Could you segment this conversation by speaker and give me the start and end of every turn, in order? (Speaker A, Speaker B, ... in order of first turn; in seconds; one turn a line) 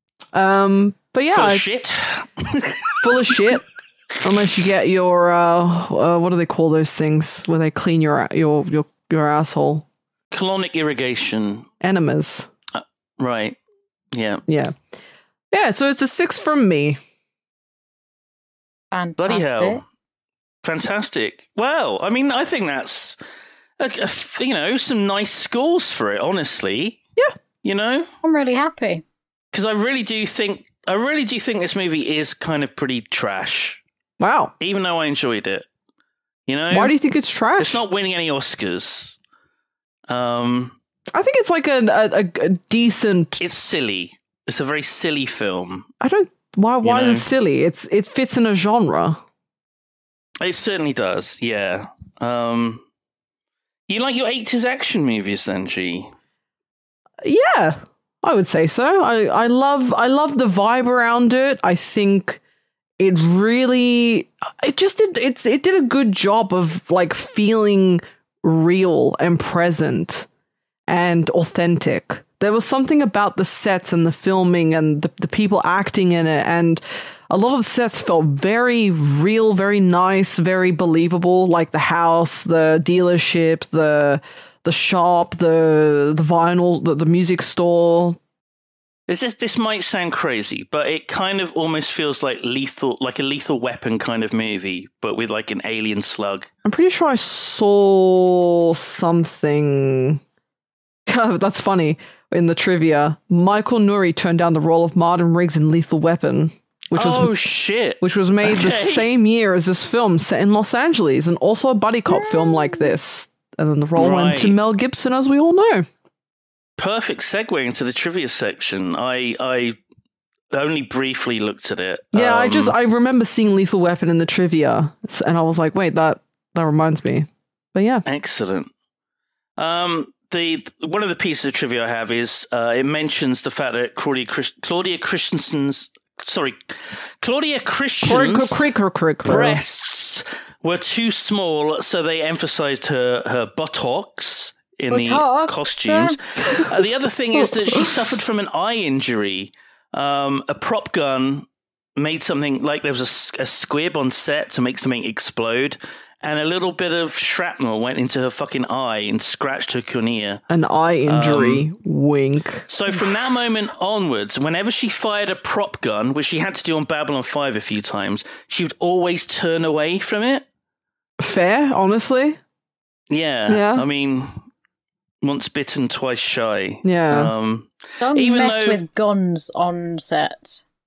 Speaker A: 0.3-1.6
Speaker B: 1.3-3.1
Speaker A: 3.0-3.7
Speaker A: 4.2-9.9
Speaker B: 10.3-11.7
Speaker A: 11.8-12.5
Speaker B: 12.7-13.6
Speaker B: 14.1-14.4
Speaker A: 14.5-14.8
Speaker A: 15.5-17.0
Speaker C: 18.9-19.8
Speaker B: 19.2-19.8
Speaker B: 20.6-23.2
Speaker B: 23.8-27.0
Speaker B: 27.6-28.1
Speaker C: 28.2-29.0
Speaker B: 29.5-33.8
Speaker A: 34.2-34.5
Speaker B: 34.6-35.7
Speaker B: 36.5-37.0
Speaker A: 36.7-37.8
Speaker B: 37.6-39.2
Speaker B: 40.1-40.8
Speaker A: 41.1-43.4
Speaker B: 43.4-45.9
Speaker A: 46.0-49.2
Speaker B: 46.8-47.3
Speaker B: 50.4-52.8
Speaker B: 53.9-56.1
Speaker A: 57.2-62.4
Speaker A: 63.0-70.3
Speaker A: 70.9-88.2
Speaker B: 89.1-96.5
Speaker A: 96.7-100.2
Speaker A: 101.1-107.3
Speaker B: 107.0-109.1
Speaker A: 108.0-115.9
Speaker C: 112.1-112.9
Speaker B: 114.0-114.6
Speaker B: 116.8-119.8
Speaker B: 120.5-122.7
Speaker A: 122.1-128.0
Speaker B: 128.1-128.7
Speaker B: 129.6-138.6
Speaker A: 138.0-139.6
Speaker B: 139.2-151.5
Speaker C: 144.9-146.2
Speaker B: 152.0-160.4
Speaker A: 160.5-162.7
Speaker B: 161.1-161.7
Speaker B: 162.7-170.4
Speaker A: 171.2-172.4
Speaker B: 173.1-174.5
Speaker A: 173.5-173.9
Speaker B: 175.2-178.8
Speaker A: 176.8-177.3
Speaker C: 178.0-180.6